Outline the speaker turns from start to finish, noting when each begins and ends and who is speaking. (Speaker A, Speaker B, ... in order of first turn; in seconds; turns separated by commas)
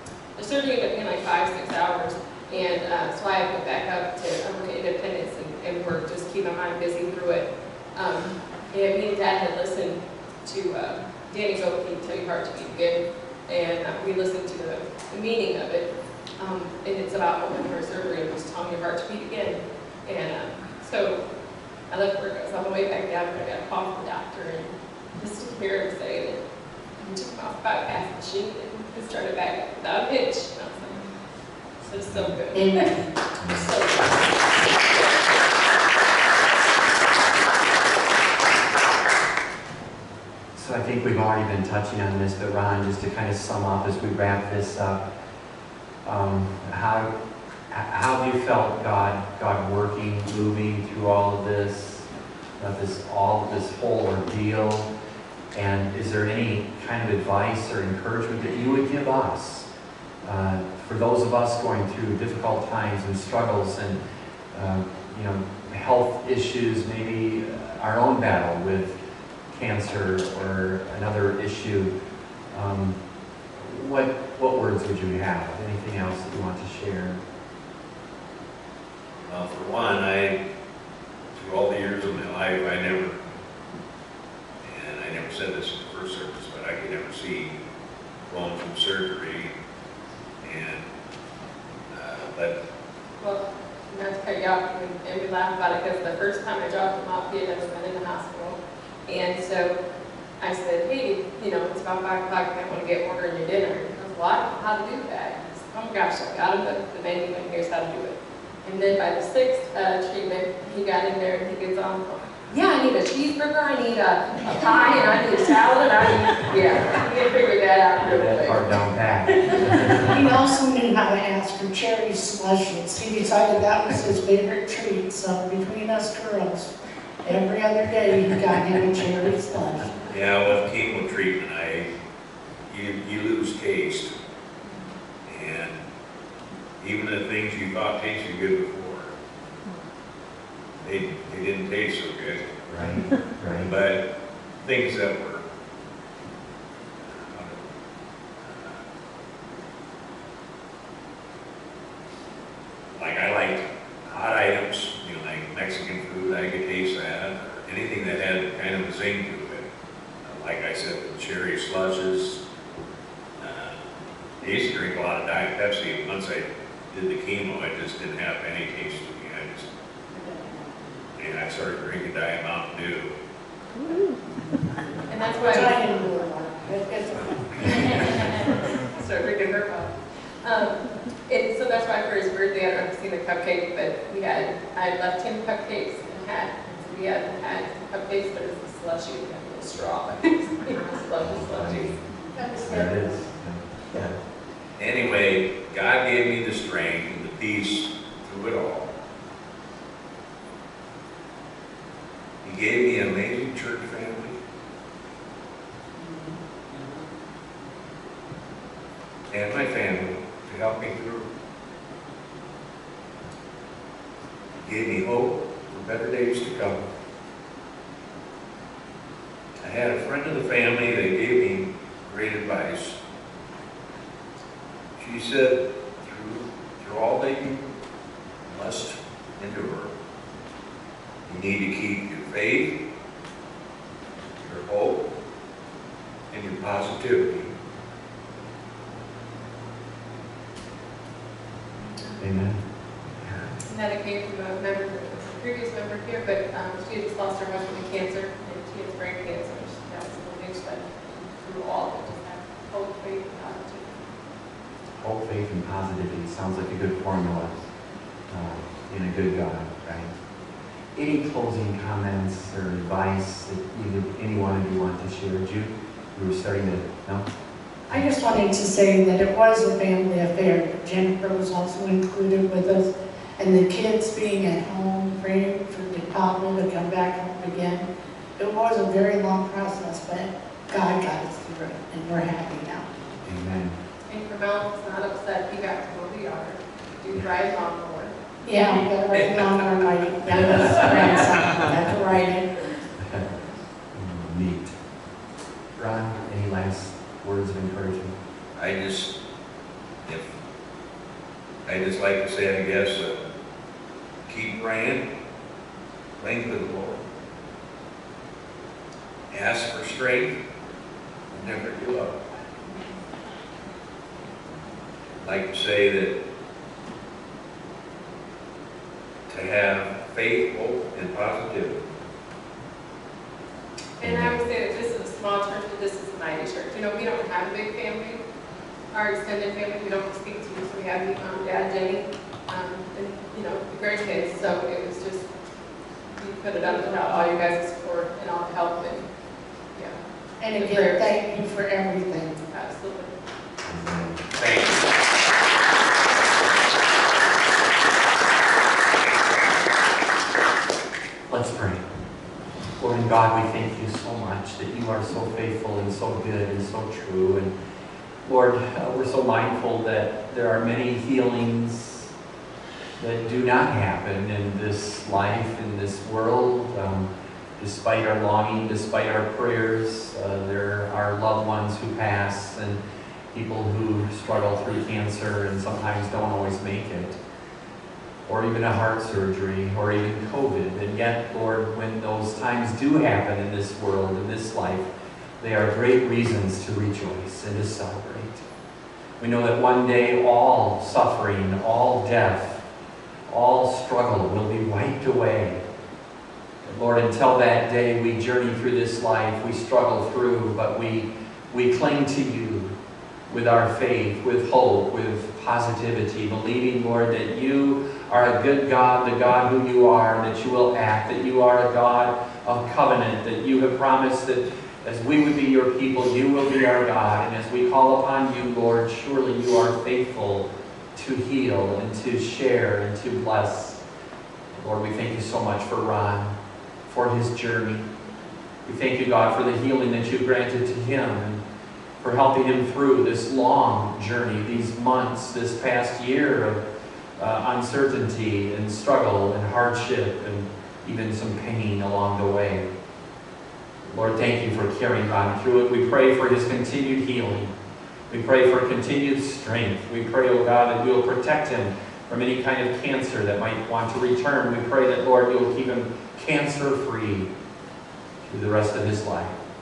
Speaker A: 0.4-21.2, Speaker A: 21.9-26.4, Speaker A: 27.0-31.1, Speaker A: 31.8-32.9, Speaker B: 31.9-32.3, Speaker C: 32.5-33.0, Speaker B: 33.4-33.7, Speaker A: 33.5-34.2, Speaker B: 40.5-45.0, Speaker B: 46.0-47.1, Speaker B: 47.7-54.9, Speaker B: 55.5-59.7, Speaker B: 60.2-64.0, Speaker B: 64.5-69.0, Speaker B: 69.5-71.9, Speaker B: 72.5-73.0, Speaker B: 73.5-77.2, Speaker D: 79.3-80.4, Speaker D: 81.3-83.2, Speaker D: 84.6-87.6, Speaker D: 88.3-89.5, Speaker D: 90.4-90.9, Speaker D: 91.9-92.6, Speaker A: 93.2-99.8, Speaker A: 100.4-118.6, Speaker B: 118.0-120.3, Speaker A: 119.3-119.8, Speaker C: 120.0-126.7, Speaker C: 127.2-130.0, Speaker D: 130.1-131.9, Speaker D: 132.7-134.1, Speaker D: 135.3-135.8, Speaker D: 136.8-139.1, Speaker D: 140.8-142.6, Speaker B: 142.7-143.7, Speaker D: 143.5-144.1, Speaker D: 144.6-145.4, Speaker D: 147.1-147.6, Speaker D: 148.4-148.8, Speaker D: 153.0-159.7, Speaker D: 160.2-162.4, Speaker D: 163.4-163.8, Speaker D: 164.4-169.7, Speaker C: 170.2-170.4, Speaker D: 171.2-173.1, Speaker A: 175.1-175.8, Speaker C: 175.5-178.3, Speaker A: 177.8-191.9, Speaker B: 191.2-192.0, Speaker C: 192.3-193.1, Speaker B: 192.6-194.2, Speaker D: 194.8-198.9, Speaker D: 202.4-204.4, Speaker D: 209.3-211.3, Speaker D: 214.6-216.8, Speaker D: 219.6-223.0, Speaker D: 225.0-227.7, Speaker D: 228.5-229.9, Speaker D: 231.3-232.8, Speaker D: 234.4-235.0, Speaker D: 236.3-237.5, Speaker B: 242.2-242.6, Speaker A: 243.7-254.0, Speaker B: 255.0-257.5, Speaker B: 258.3-260.1, Speaker B: 260.9-267.3, Speaker C: 267.9-282.9, Speaker B: 283.2-283.8, Speaker A: 284.1-288.1, Speaker C: 288.4-292.5, Speaker B: 290.4-291.1, Speaker B: 293.0-293.3, Speaker B: 293.9-294.8, Speaker B: 295.8-298.2, Speaker D: 298.6-299.2, Speaker D: 301.7-303.3, Speaker D: 304.3-305.1, Speaker D: 306.2-307.0, Speaker D: 309.3-310.4, Speaker D: 311.3-312.3, Speaker D: 315.2-316.1, Speaker D: 319.3-321.8, Speaker A: 324.0-328.2, Speaker B: 324.0-324.4, Speaker A: 328.9-335.3, Speaker A: 336.1-339.1, Speaker C: 336.6-337.4, Speaker C: 340.4-342.4, Speaker A: 340.5-341.1, Speaker A: 342.4-343.1, Speaker B: 343.6-344.8, Speaker B: 351.3-351.8, Speaker B: 352.8-357.5, Speaker B: 358.2-362.1, Speaker B: 363.0-372.8, Speaker B: 373.3-377.2, Speaker B: 378.3-384.9, Speaker B: 385.4-388.4, Speaker B: 389.2-392.6, Speaker B: 393.3-395.6, Speaker B: 396.6-402.7, Speaker B: 403.3-423.8, Speaker B: 424.5-426.4, Speaker B: 426.9-427.9, Speaker B: 428.6-431.4, Speaker B: 432.0-436.6, Speaker B: 437.2-442.6, Speaker B: 443.9-447.5, Speaker B: 448.1-457.3, Speaker B: 458.3-459.4